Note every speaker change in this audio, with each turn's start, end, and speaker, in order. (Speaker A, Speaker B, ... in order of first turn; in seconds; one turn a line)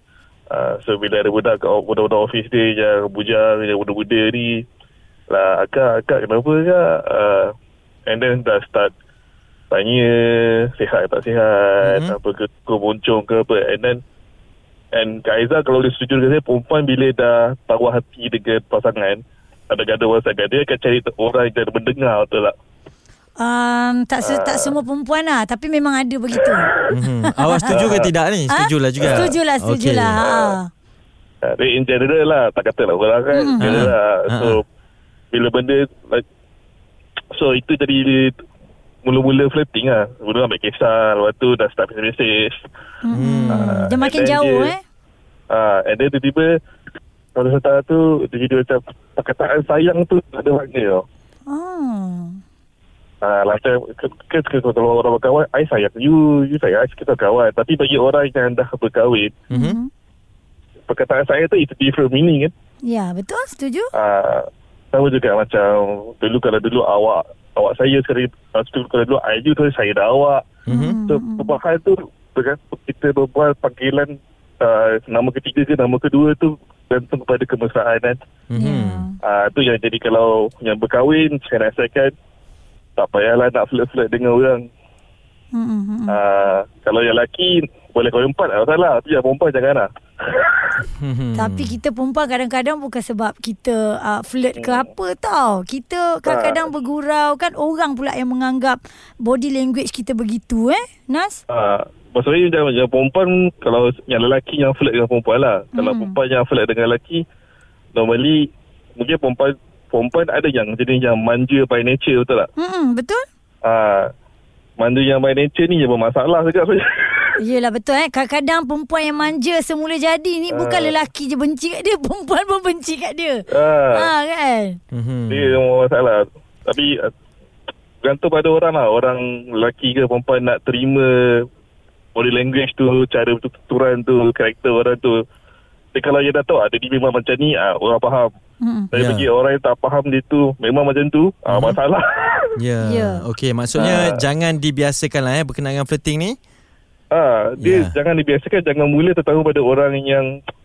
Speaker A: 0.5-4.6
Speaker A: 5.3-7.5
Speaker A: 8.1-8.9
Speaker A: 9.7-14.0
Speaker B: 11.8-12.1
Speaker A: 14.9-22.5
Speaker C: 23.4-26.7
Speaker A: 24.2-24.7
Speaker B: 26.9-30.2
Speaker C: 27.3-27.9
Speaker A: 27.6-28.1
Speaker C: 28.5-30.7
Speaker A: 29.0-29.3
Speaker A: 30.2-30.6
Speaker A: 31.4-34.6
Speaker C: 33.3-33.9
Speaker B: 33.6-34.6
Speaker A: 35.3-36.2
Speaker A: 37.4-38.4
Speaker A: 39.0-42.7
Speaker C: 43.0-44.8
Speaker B: 43.1-43.8
Speaker A: 43.5-44.7
Speaker A: 45.5-46.5
Speaker A: 47.4-51.0
Speaker C: 51.5-52.4
Speaker A: 53.2-59.4
Speaker B: 59.5-59.8
Speaker C: 59.5-59.9
Speaker A: 60.9-62.5
Speaker C: 62.8-63.9
Speaker A: 63.9-78.2
Speaker C: 70.7-71.5
Speaker B: 70.7-71.0
Speaker B: 78.5-79.1
Speaker C: 78.5-79.1
Speaker A: 79.2-82.1
Speaker A: 83.0-84.6
Speaker C: 85.5-86.2
Speaker A: 86.1-90.8
Speaker B: 90.8-91.8
Speaker C: 91.3-101.4
Speaker A: 94.5-94.8
Speaker A: 96.2-96.6
Speaker A: 101.5-107.2
Speaker C: 105.7-106.2
Speaker A: 107.9-112.5
Speaker C: 112.6-113.2
Speaker A: 113.6-114.1
Speaker A: 114.8-117.4
Speaker C: 117.3-124.8
Speaker A: 120.5-120.9
Speaker A: 123.5-124.1
Speaker B: 124.9-125.5
Speaker A: 125.3-127.1
Speaker A: 128.0-131.4
Speaker A: 132.2-135.2
Speaker A: 135.9-138.3
Speaker C: 138.6-138.9
Speaker A: 138.9-142.6
Speaker B: 138.9-139.3
Speaker B: 141.5-141.8
Speaker B: 142.6-146.4
Speaker C: 142.8-143.2
Speaker A: 143.8-144.2
Speaker A: 147.1-150.3
Speaker B: 147.6-147.9